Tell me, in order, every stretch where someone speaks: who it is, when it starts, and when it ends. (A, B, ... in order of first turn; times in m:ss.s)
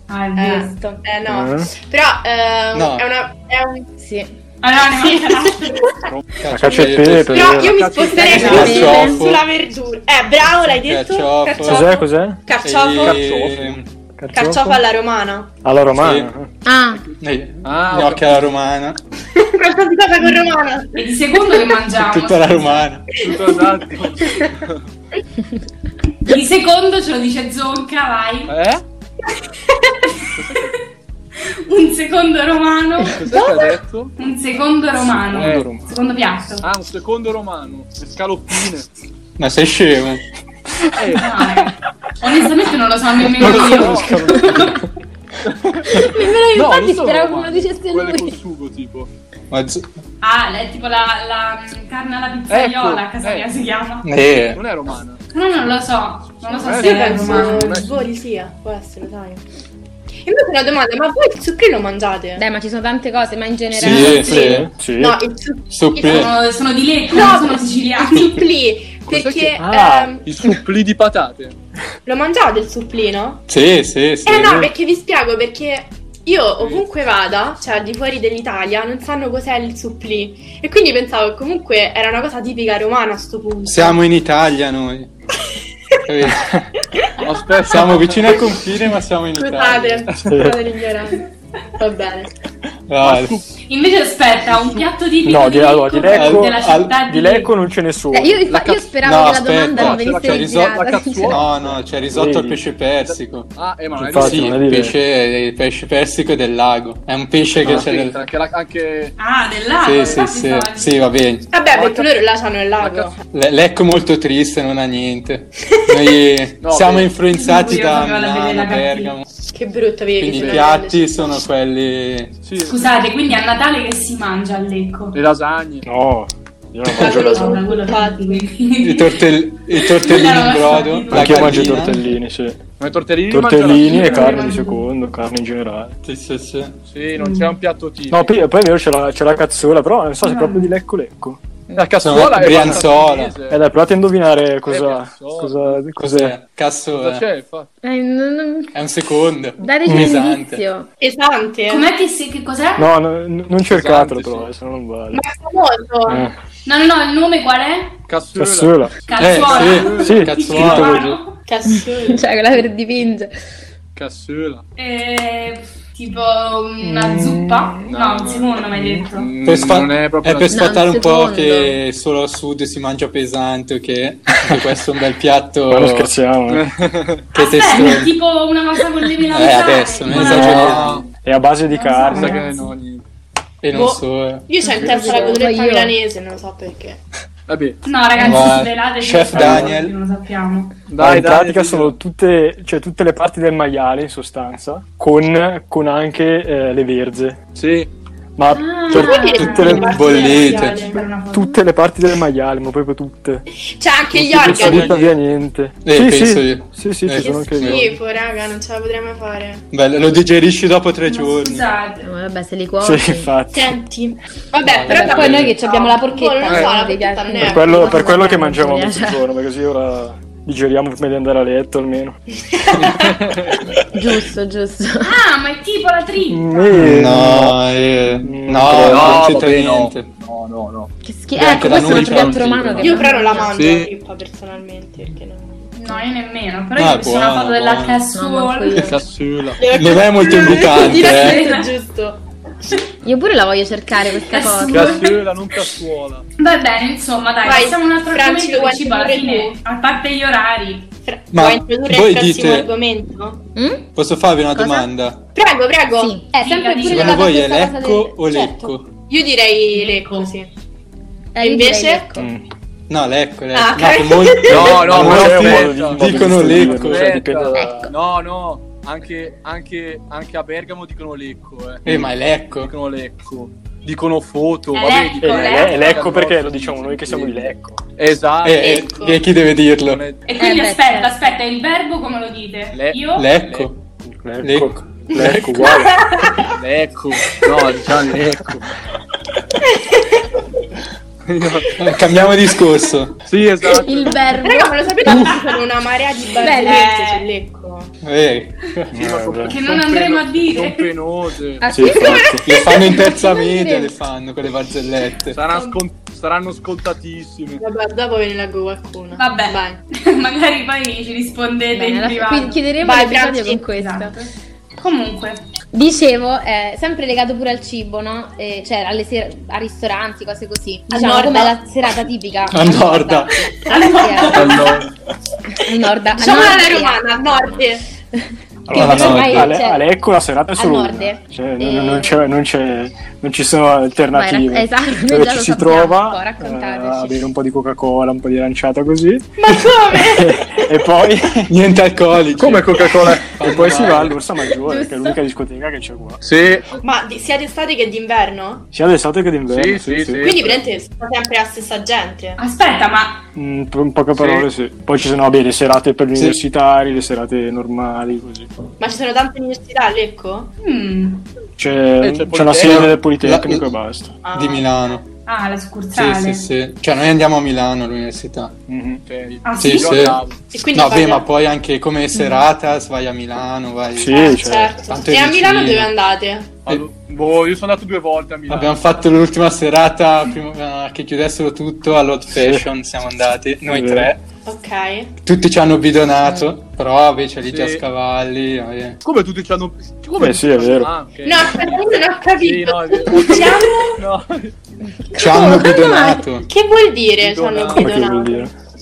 0:00.1-0:00.8 A
0:00.4-0:03.9 B
0:01.3-0:01.7 C
0:02.7-0:03.1 D
0:04.0-0:04.3 E
0:04.6-0:05.9 A
0:05.0-0:06.0 B
0:06.4-0:07.6 D
0:06.5-0:07.8 C
0:07.3-0:13.2 B
0:07.5-0:09.0 F
0:08.2-0:08.8 A
0:08.2-0:09.5 D
0:08.5-0:09.2 E
0:10.8-0:12.0 D
0:11.6-0:12.4 C
0:12.6-0:13.9 D
0:13.0-0:13.8 F
0:14.2-0:14.8 C
0:14.3-0:15.5 B
0:15.6-0:16.5 C
0:16.0-0:16.3 D
0:16.6-0:17.0 E
0:17.0-0:18.5 F
0:17.2-0:19.0 D
0:19.4-0:21.8 B
0:21.0-0:22.8 A
0:22.0-0:23.2 D
0:23.2-0:24.9 F
0:26.3-0:28.5 A
0:28.5-0:28.8 F
0:30.4-0:30.8 F
0:31.4-0:33.3 A
0:33.1-0:34.2 F
0:34.2-0:36.7 A
0:35.1-0:35.9 C
0:35.3-0:35.7 F
0:36.6-0:38.9 F
0:39.4-0:40.2 D
0:41.0-0:41.4 F
0:41.2-0:44.8 A
0:43.4-0:44.8 C
0:43.4-0:44.6 F
0:45.4-0:49.1 F
0:45.8-0:48.4 E
0:49.5-0:49.9 D
0:50.2-0:54.1 A
0:52.5-0:53.5 F
0:54.0-0:54.6 D
0:54.5-0:55.2 F
0:55.3-0:57.8 A
0:56.5-0:58.1 F
0:56.6-0:59.4 B
1:00.2-1:02.4 B
1:02.4-1:04.6 E
1:03.8-1:04.7 D
1:03.8-1:05.2 C
1:04.0-1:04.5 B
1:05.0-1:06.3 B
1:05.7-1:06.3 D
1:06.0-1:08.4 A
1:07.1-1:10.3 B
1:09.1-1:09.6 F
1:09.6-1:10.2 C
1:10.2-1:11.6 F
1:12.1-1:13.5 B
1:13.5-1:14.7 D
1:14.3-1:24.0 B
1:14.4-1:14.7 C
1:16.6-1:16.8 F
1:23.7-1:25.1 D
1:26.1-1:26.6 D
1:27.0-1:27.3 B
1:27.2-1:28.4 F
1:27.7-1:30.1 D
1:29.4-1:31.3 B
1:30.1-1:30.4 F
1:30.3-1:30.6 C
1:31.8-1:32.3 B
1:32.9-1:33.4 D
1:33.0-1:33.6 F
1:33.6-1:37.5 A
1:34.5-1:34.9 F
1:35.2-1:38.4 C
1:36.1-1:37.0 D
1:38.1-1:41.4 E
1:38.5-1:39.0 F
1:39.0-1:43.5 D
1:39.7-1:41.8 F
1:42.1-1:42.6 C
1:43.1-1:44.8 F
1:44.0-1:45.0 C
1:44.1-1:48.2 D
1:47.6-1:49.2 F
1:47.6-1:47.9 C
1:49.2-1:51.1 A
1:49.8-1:51.5 D
1:51.5-1:53.2 B
1:51.7-1:52.1 F
1:52.8-1:53.1 F
1:53.3-1:59.2 D
1:56.6-1:57.2 F
1:57.3-1:59.1 A
1:59.5-2:01.4 B
2:00.2-2:02.4 D
2:00.3-2:00.7 F
2:02.4-2:02.8 F
2:02.6-2:05.2 A
2:05.1-2:05.9 F
2:05.8-2:07.6 C
2:06.9-2:11.9 A
2:06.9-2:08.5 B
2:08.8-2:12.0 D
2:11.1-2:12.6 C
2:12.8-2:14.4 F
2:13.3-2:16.0 C
2:13.8-2:14.8 A
2:16.0-2:16.8 D
2:16.9-2:18.4 F
2:17.2-2:17.6 A
2:18.1-2:21.4 C
2:20.2-2:20.7 A
2:21.8-2:23.6 F
2:22.0-2:23.4 D
2:23.5-2:26.4 C
2:24.7-2:25.9 F
2:26.0-2:27.2 D
2:26.9-2:27.7 F
2:27.8-2:28.8 E
2:28.7-2:30.6 D
2:29.6-2:30.9 E
2:29.9-2:30.2 C
2:31.0-2:31.9 B
2:31.7-2:32.9 A
2:32.8-2:35.2 C
2:33.6-2:34.5 F
2:35.1-2:36.3 B
2:36.1-2:36.4 C
2:36.7-2:38.0 A
2:38.1-2:40.6 F
2:38.4-2:39.0 C
2:39.1-2:41.4 A
2:39.2-2:41.1 D
2:40.0-2:41.2 C
2:41.5-2:42.2 B
2:41.7-2:43.3 E
2:44.0-2:44.6 F
2:44.8-2:49.3 A
2:46.8-2:48.0 C
2:47.9-2:50.8 F
2:48.7-2:49.1 C
2:49.4-2:56.1 D
2:50.5-2:51.8 E
2:55.7-2:56.7 C
2:56.5-2:57.3 F
2:57.4-2:58.2 D
2:57.4-3:00.9 A
2:59.2-3:01.0 D
3:00.1-3:01.1 F
3:00.1-3:02.4 C
3:01.7-3:02.7 A
3:02.1-3:03.0 F
3:03.6-3:04.5 D
3:03.7-3:07.0 B
3:04.7-3:06.0 E
3:07.5-3:07.8 F
3:07.8-3:10.8 A
3:08.2-3:10.0 D
3:09.3-3:09.7 C
3:10.9-3:12.0 F
3:11.0-3:17.4 C
3:17.6-3:17.9 F
3:18.4-3:20.0 C
3:18.6-3:19.4 E
3:18.9-3:21.6 A
3:18.9-3:21.1 B
3:19.5-3:20.9 D
3:21.3-3:23.4 C
3:23.8-3:25.0 B
3:24.2-3:28.0 C
3:24.3-3:25.1 F
3:25.8-3:27.9 D
3:27.2-3:29.7 B
3:29.7-3:31.7 D
3:31.1-3:32.1 A
3:32.0-3:33.3 E
3:32.8-3:33.8 C
3:33.5-3:38.3 B
3:34.6-3:35.6 D
3:34.8-3:39.2 E
3:36.5-3:36.8 F
3:37.4-3:42.2 C
3:42.5-3:43.2 B
3:43.2-3:43.6 F
3:43.9-3:45.1 E
3:45.0-3:46.8 A
3:46.3-3:47.6 C
3:46.7-3:50.1 D
3:48.2-3:49.4 C
3:48.8-3:50.9 F
3:51.0-3:53.5 E
3:51.4-3:52.8 D
3:51.6-3:53.9 F
3:52.8-3:55.7 B
3:55.8-3:58.9 A
3:56.8-3:58.0 D
3:58.1-3:59.0 E
3:58.8-3:59.7 F
3:59.6-4:02.8 B
3:59.6-4:01.5 D
4:00.6-4:01.7 A
4:03.0-4:05.1 E
4:04.3-4:05.2 A
4:04.7-4:06.3 F
4:06.4-4:10.9 A
4:07.4-4:09.6 B
4:11.1-4:13.4 B
4:11.3-4:12.7 D
4:13.6-4:13.8 E
4:14.0-4:15.3 D
4:14.5-4:14.9 E
4:15.4-4:16.2 B
4:16.0-4:18.7 E
4:16.4-4:17.3 A
4:16.9-4:18.9 D
4:19.1-4:20.5 B
4:19.7-4:20.3 A
4:21.4-4:22.3 E
4:21.4-4:22.1 B
4:22.2-4:22.5 C
4:22.9-4:27.3 D
4:23.5-4:24.8 B
4:24.5-4:37.5 F
4:24.5-4:27.8 C
4:27.5-4:27.9 E
4:31.8-4:32.7 D
4:34.7-4:36.0 A
4:35.2-4:37.8 C
4:38.0-4:39.0 F
4:38.4-4:40.0 D
4:38.6-4:39.2 B
4:39.8-4:40.3 F
4:40.3-4:43.3 A
4:40.4-4:41.3 E
4:42.7-4:43.7 F
4:43.1-4:43.8 D
4:44.0-4:46.0 C
4:44.4-4:45.5 D
4:45.2-4:46.5 B
4:46.5-4:48.7 F
4:49.7-4:50.2 B
4:51.2-4:52.3 F
4:51.8-4:53.2 D
4:53.2-4:54.3 F
4:53.7-4:55.4 E
4:54.4-4:57.9 B
4:56.4-4:56.9 E
4:56.4-4:57.3 A
4:58.0-4:58.8 D
4:58.9-5:01.7 F
4:58.9-4:59.6 C
4:59.5-5:00.9 A
5:01.6-5:04.0 E
5:01.7-5:02.4 C
5:02.0-5:02.6 B
5:02.4-5:05.4 D
5:05.3-5:07.6 F
5:07.6-5:09.8 B
5:09.2-5:12.6 A
5:11.7-5:14.2 E
5:12.8-5:13.6 B
5:13.6-5:15.4 A
5:15.7-5:24.7 E
5:20.9-5:21.6 B
5:22.5-5:23.5 D
5:23.7-5:24.8 A
5:23.7-5:24.6 B
5:24.4-5:24.9 F
5:25.5-5:27.6 E
5:26.2-5:27.8 B
5:28.1-5:29.9 E
5:28.7-5:29.6 D
5:28.7-5:39.4 C
5:30.6-5:32.2 E
5:34.1-5:37.3 E
5:39.4-5:40.8 B
5:39.9-5:41.6 C
5:41.5-5:44.2 D
5:42.4-5:46.2 C
5:44.7-5:45.2 E
5:46.2-5:46.8 F
5:46.8-5:48.7 B
5:48.7-5:50.4 C
5:49.5-5:50.6 F
5:50.2-5:52.4 B
5:52.4-5:53.3 A
5:53.4-5:58.5 C
5:54.2-5:54.5 F
5:58.8-6:00.5 B
6:00.6-6:01.3 A
6:01.6-6:04.2 C
6:02.0-6:03.0 F
6:02.6-6:03.7 D
6:04.2-6:05.0 B
6:04.3-6:05.0 D
6:05.3-6:06.5 A
6:05.9-6:08.6 D
6:08.7-6:09.0 C
6:09.1-6:10.4 F
6:09.4-6:10.2 A
6:09.6-6:14.4 D
6:10.5-6:11.3 B
6:14.0-6:14.8 C
6:14.1-6:16.6 B
6:14.9-6:15.9 D
6:16.7-6:18.9 F
6:18.5-6:24.2 D
6:22.3-6:22.7 C
6:23.7-6:24.1 C
6:24.5-6:25.1 B
6:25.2-6:29.0 D
6:26.2-6:26.5 E
6:27.4-6:27.9 F
6:29.0-6:34.6 F
6:30.2-6:30.9 C
6:31.3-6:34.0 B
6:33.4-6:33.8 A
6:35.0-6:36.2 E
6:35.1-6:36.5 D
6:36.4-6:38.5 B
6:37.2-6:38.0 F
6:37.7-6:38.5 C